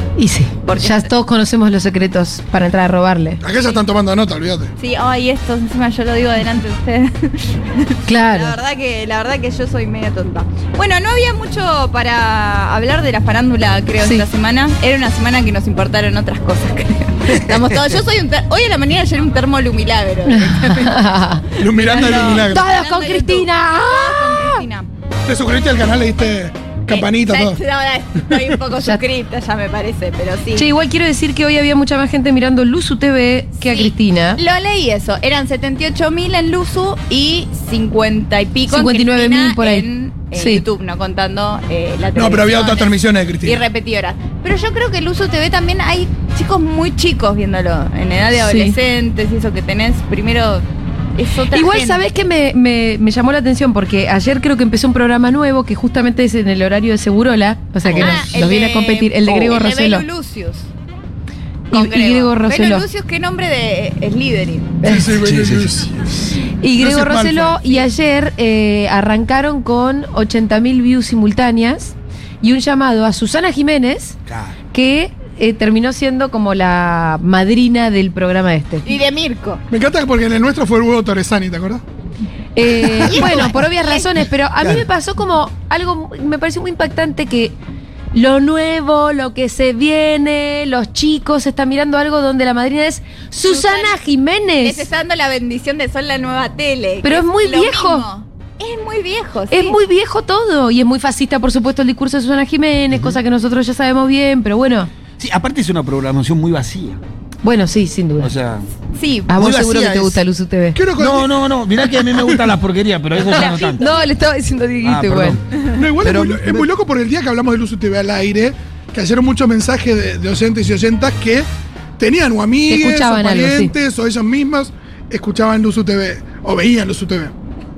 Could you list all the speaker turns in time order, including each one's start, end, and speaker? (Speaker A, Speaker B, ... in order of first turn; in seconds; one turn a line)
Speaker A: 0.2-3.4
Speaker B: 0.7-1.1
Speaker C: 3.4-4.7
Speaker B: 4.8-21.0
Speaker A: 8.1-8.6
Speaker D: 17.5-17.8
Speaker A: 20.3-21.4
Speaker C: 21.6-22.7
Speaker B: 21.6-24.9
Speaker A: 22.4-24.6
Speaker C: 25.3-27.6
Speaker B: 26.9-30.7
Speaker A: 30.6-34.4
Speaker B: 33.6-50.6
Speaker A: 38.7-40.6
Speaker C: 42.1-43.6
Speaker A: 48.4-48.8
Speaker B: 51.2-52.0
Speaker A: 51.5-60.1
Speaker D: 57.9-58.3
Speaker B: 57.9-60.7
Speaker A: 61.7-62.8
Speaker B: 61.7-64.8
Speaker C: 64.8-66.1
Speaker A: 64.8-65.2
Speaker D: 65.2-65.8
Speaker A: 66.6-74.2
Speaker C: 66.8-67.8
Speaker D: 74.3-74.5
Speaker A: 74.7-78.9
Speaker B: 78.8-79.6
Speaker C: 79.7-81.8
Speaker A: 82.5-87.5
Speaker B: 83.1-84.1
Speaker A: 88.1-94.9
Speaker B: 93.4-94.0
Speaker B: 94.6-99.8
Speaker A: 97.0-98.1
Speaker A: 99.5-104.9
Speaker D: 102.9-103.2
Speaker D: 105.2-107.0
Speaker A: 107.4-108.3
Speaker D: 108.2-108.7
Speaker B: 108.9-109.3
Speaker A: 109.3-110.8
Speaker D: 109.3-110.2
Speaker C: 110.8-111.4
Speaker D: 111.0-114.0
Speaker B: 113.3-114.0
Speaker A: 113.6-115.4
Speaker D: 114.8-116.7
Speaker C: 115.7-121.5
Speaker C: 122.0-127.3
Speaker A: 122.7-123.7